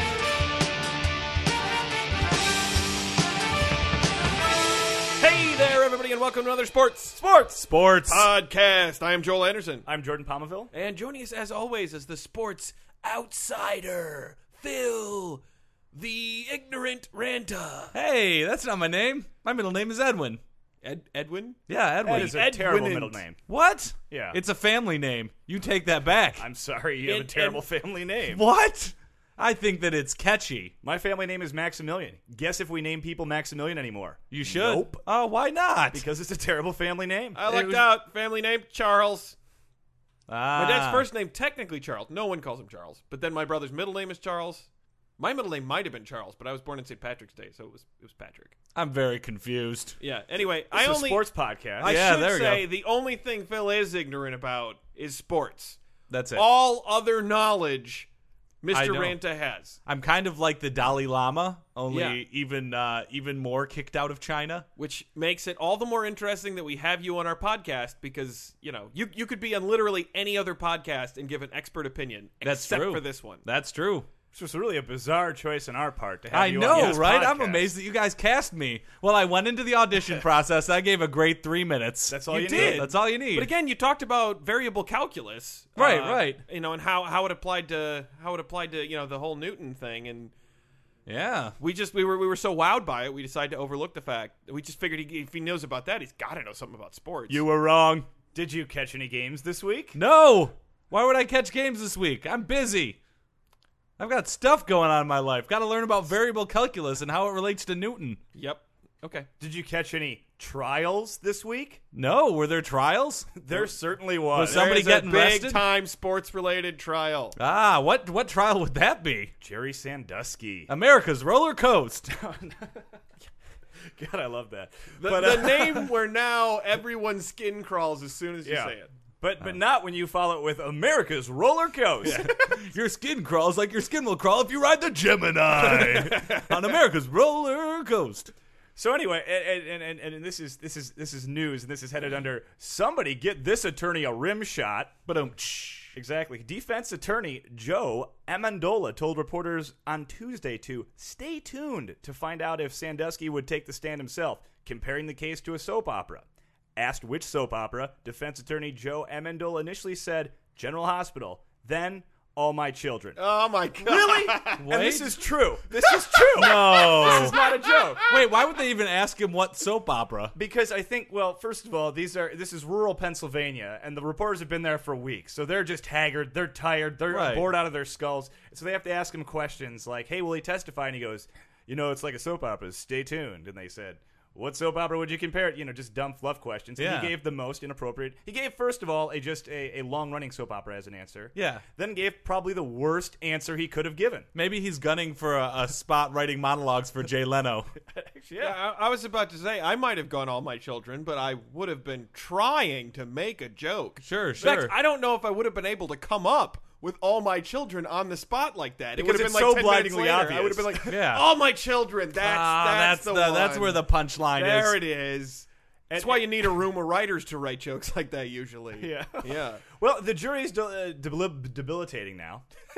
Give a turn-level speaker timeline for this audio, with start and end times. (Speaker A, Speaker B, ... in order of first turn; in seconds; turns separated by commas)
Speaker A: 5.2-7.2, Speaker B: 7.2-7.6, Speaker C: 7.5-8.3, Speaker A: 8.1-9.8, Speaker B: 9.8-10.7, Speaker A: 10.7-15.4, Speaker A: 15.9-17.9, Speaker C: 17.9-20.4, Speaker A: 20.8-21.6, Speaker C: 21.7-22.5, Speaker B: 22.0-23.4, Speaker A: 22.1-23.2, Speaker C: 23.5-26.4, Speaker B: 24.1-24.4, Speaker B: 26.4-28.4, Speaker A: 27.0-27.6, Speaker C: 28.3-30.7, Speaker B: 30.8-35.0, Speaker C: 34.3-36.0, Speaker B: 35.9-37.4, Speaker A: 37.4-39.4, Speaker C: 37.5-37.9, Speaker C: 40.3-41.0, Speaker A: 40.5-48.5, Speaker C: 48.7-50.0, Speaker A: 50.0-51.3, Speaker B: 50.7-52.0, Speaker A: 51.8-55.8, Speaker C: 51.8-52.6, Speaker C: 56.1-56.4, Speaker A: 56.3-58.1, Speaker A: 58.6-59.8, Speaker C: 58.7-59.2, Speaker C: 59.9-64.7, Speaker A: 61.9-62.2, Speaker A: 64.8-73.4, Speaker C: 72.4-74.1, Speaker B: 74.3-77.7, Speaker C: 76.3-83.5, Speaker A: 76.7-77.0, Speaker B: 82.1-82.9, Speaker A: 82.3-90.3, Speaker C: 85.8-86.4, Speaker C: 91.0-91.5, Speaker A: 91.6-97.4, Speaker B: 97.3-100.0, Speaker C: 99.9-103.0, Speaker C: 104.0-108.2, Speaker A: 108.3-109.3, Speaker B: 109.4-111.8, Speaker C: 111.9-113.3, Speaker B: 113.3-114.7, Speaker C: 114.3-115.6, Speaker A: 114.3-117.3, Speaker C: 117.4-119.3, Speaker B: 119.4-120.7, Speaker C: 120.7-122.1, Speaker B: 122.1-123.0, Speaker B: 123.9-125.9, Speaker A: 125.0-128.9, Speaker B: 128.4-132.5, Speaker C: 132.0-138.3, Speaker A: 135.6-136.6, Speaker B: 138.8-144.9, Speaker C: 145.1-145.9, Speaker B: 145.9-163.2, Speaker A: 163.2-164.7, Speaker B: 163.8-168.0, Speaker C: 164.6-165.2, Speaker A: 165.7-168.3, Speaker C: 166.3-167.3, Speaker C: 168.1-170.3, Speaker B: 170.3-194.3, Speaker C: 177.1-177.5, Speaker C: 186.8-187.2, Speaker C: 191.3-191.6, Speaker C: 194.3-197.7, Speaker B: 197.9-198.6, Speaker A: 198.4-213.8, Speaker C: 204.0-204.7, Speaker B: 208.9-211.0, Speaker C: 210.9-211.2, Speaker C: 212.2-214.8, Speaker A: 214.3-219.6, Speaker B: 215.9-216.4, Speaker B: 218.8-222.4